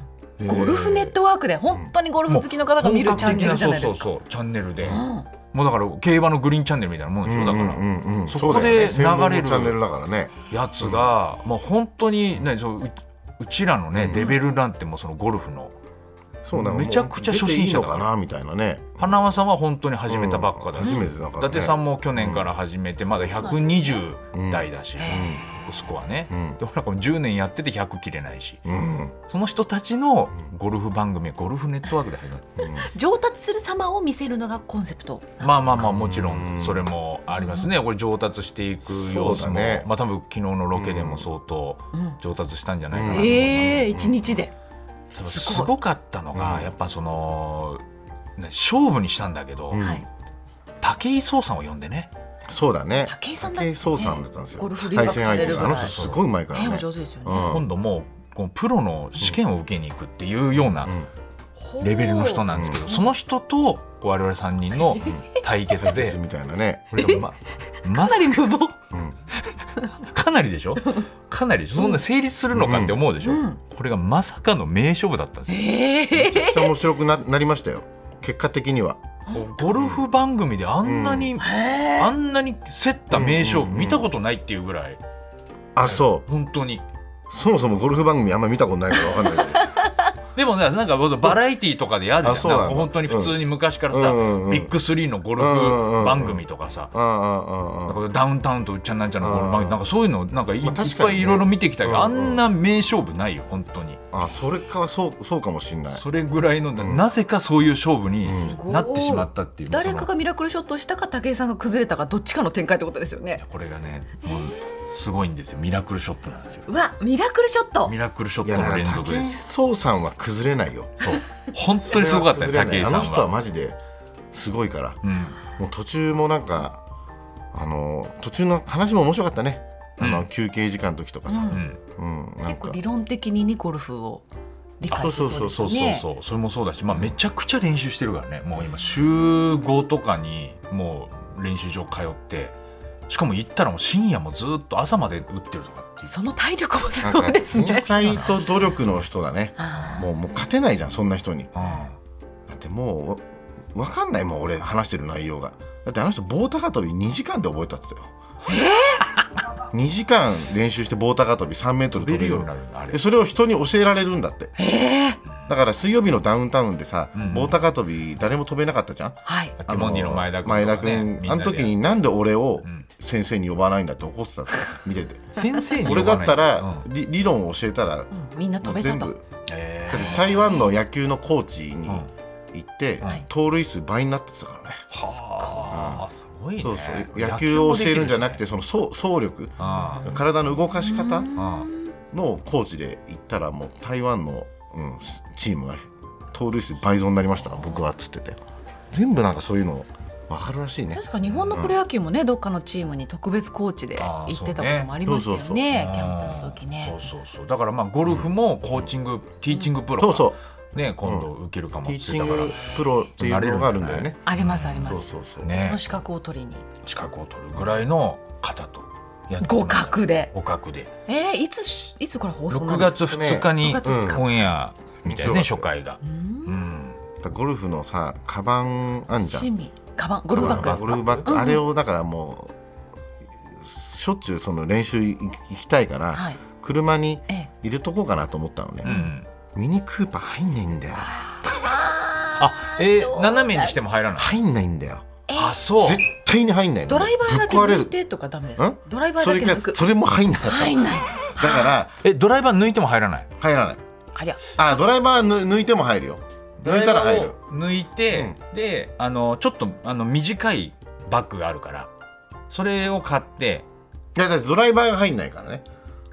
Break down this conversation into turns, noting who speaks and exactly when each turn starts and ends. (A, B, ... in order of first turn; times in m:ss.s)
0:00.4-0:01.1 A
0:00.4-0:04.1 B
0:02.3-0:09.8 A
0:03.1-0:03.5 C
0:04.8-0:05.3 B
0:07.2-0:11.1 C
0:10.5-0:15.7 A
0:14.0-0:14.3 C
0:16.4-0:19.2 C
0:16.5-0:18.1 A
0:19.0-0:28.6 A
0:20.1-0:22.5 C
0:23.4-0:24.0 B
0:24.3-0:25.4 C
0:25.0-0:25.4 B
0:26.3-0:26.6 C
0:28.6-0:29.2 C
0:29.3-0:32.6 A
0:32.6-0:32.9 C
0:32.7-0:35.8 B
0:35.4-0:43.9 A
0:35.7-0:36.9 C
0:37.3-0:37.7 B
0:39.0-0:39.9 C
0:40.7-0:41.3 C
0:42.9-0:44.3 C
0:43.1-0:44.5 B
0:45.1-0:47.8 A
0:45.2-0:45.7 B
0:46.3-0:46.7 C
0:48.4-0:49.9 A
0:49.7-0:50.0 C
0:49.8-0:50.0 B
0:50.8-0:52.1 A
0:52.5-0:57.7 C
0:53.0-0:57.5 B
0:55.1-0:56.2 A
0:57.3-1:01.0 A
1:00.8-1:01.1 C
1:01.6-1:03.1 B
1:01.8-1:06.2 A
1:02.5-1:02.9 C
1:04.8-1:05.4 B
1:05.0-1:07.2 C
1:06.9-1:08.6 A
1:07.0-1:07.2 B
1:07.8-1:08.8 B
1:08.9-1:09.2 C
1:09.4-1:15.8 A
1:11.8-1:12.0 B
1:12.5-1:13.0 C
1:13.2-1:13.6 B
1:15.5-1:16.8 B
1:16.1-1:19.0 C
1:19.3-1:25.0 A
1:19.6-1:20.1 C
1:20.8-1:21.3 C
1:21.4-1:22.1 B
1:23.1-1:24.1 C
1:25.8-1:26.2 C
1:25.8-1:26.8 A
1:27.3-1:29.7 C
1:30.4-1:36.9 A
1:32.2-1:33.4 C
1:33.9-1:34.7 C
1:35.4-1:38.0 C
1:37.9-1:44.0 A
1:39.2-1:39.8 C
1:40.6-1:42.4 C
1:44.1-1:46.0 C
1:45.9-1:50.1 A
1:46.8-1:47.0 C
1:48.2-1:48.6 C
1:48.3-1:53.4 B
1:53.4-1:56.7 A
1:54.2-1:54.8 B
1:56.7-1:58.0 B
1:57.8-1:59.4 A
1:58.4-2:01.0 C
1:59.0-1:59.3 B
2:01.0-2:03.3 A
2:01.8-2:03.8 C
2:04.3-2:05.0 C
2:05.0-2:05.4 A
2:05.6-2:06.8 C
2:07.5-2:12.8 C
2:10.0-2:10.3 A
2:11.3-2:11.6 B
2:11.5-2:11.8 A
2:12.5-2:14.2 B
2:14.8-2:16.1 B
2:14.9-2:22.5 A
2:14.9-2:15.8 C
2:23.1-2:26.2 A
2:26.1-2:28.3 B
2:27.0-2:31.5 C
2:28.0-2:28.4 A
2:29.6-2:30.1 B
2:31.5-2:32.0 A
2:32.5-2:33.2 C
2:33.8-2:38.1 C
2:38.5-2:39.2 B
2:39.7-2:44.5 C
2:42.0-2:43.0 A
2:44.6-2:45.2 B
2:45.5-2:59.2 C
2:47.1-2:47.6 A
2:49.2-2:49.6 B
2:49.6-2:51.8 A
2:55.4-2:56.9 A
2:58.1-2:59.1 B
2:59.5-3:00.6 A
2:59.9-3:04.9 C
2:59.9-3:00.7 B
3:04.9-3:08.4 A
3:05.3-3:05.8 B
3:05.7-3:06.1 C
3:06.6-3:11.3 C
3:09.6-3:10.1 A
3:09.6-3:11.9 B
3:11.4-3:11.7 A
3:12.1-3:18.4 C
3:18.9-3:21.8 C
3:20.9-3:27.0 B
3:21.2-3:21.6 A
3:24.0-3:24.9 A
3:25.0-3:25.7 C
3:25.7-3:35.9 A
3:28.0-3:28.3 C
3:30.0-3:30.4 C
3:31.0-3:31.3 C
3:31.8-3:34.2 C
3:32.5-3:32.9 B
3:34.2-3:36.7 B
3:34.8-3:35.5 C
3:36.8-3:40.9 A
3:37.6-3:37.8 C
3:39.4-3:40.3 B
3:41.1-3:44.3 B
3:42.5-3:47.0 A
3:43.1-3:44.3 C
3:45.0-3:45.7 C
3:46.0-3:46.7 B
3:47.2-3:49.5 C
3:49.2-3:51.6 B
3:50.3-3:51.4 A
3:50.3-3:52.5 C
3:53.5-3:59.0 C
3:56.1-3:56.4 B
3:58.8-3:59.3 A
3:58.8-3:59.1 B
3:59.5-4:01.2 C
4:01.0-4:03.8 B
4:02.4-4:04.3 A
4:04.2-4:05.1 C
4:05.3-4:05.6 B
4:05.4-4:06.0 A
4:05.8-4:08.0 C
4:06.9-4:09.8 B
4:08.6-4:12.0 C
4:10.4-4:11.8 B
4:12.0-4:13.3 A
4:13.4-4:13.8 C
4:14.2-4:14.5 B
4:14.5-4:17.4 C
4:16.6-4:21.9 A
4:18.1-4:18.4 C
4:22.5-4:23.6 A
4:24.1-4:25.6 C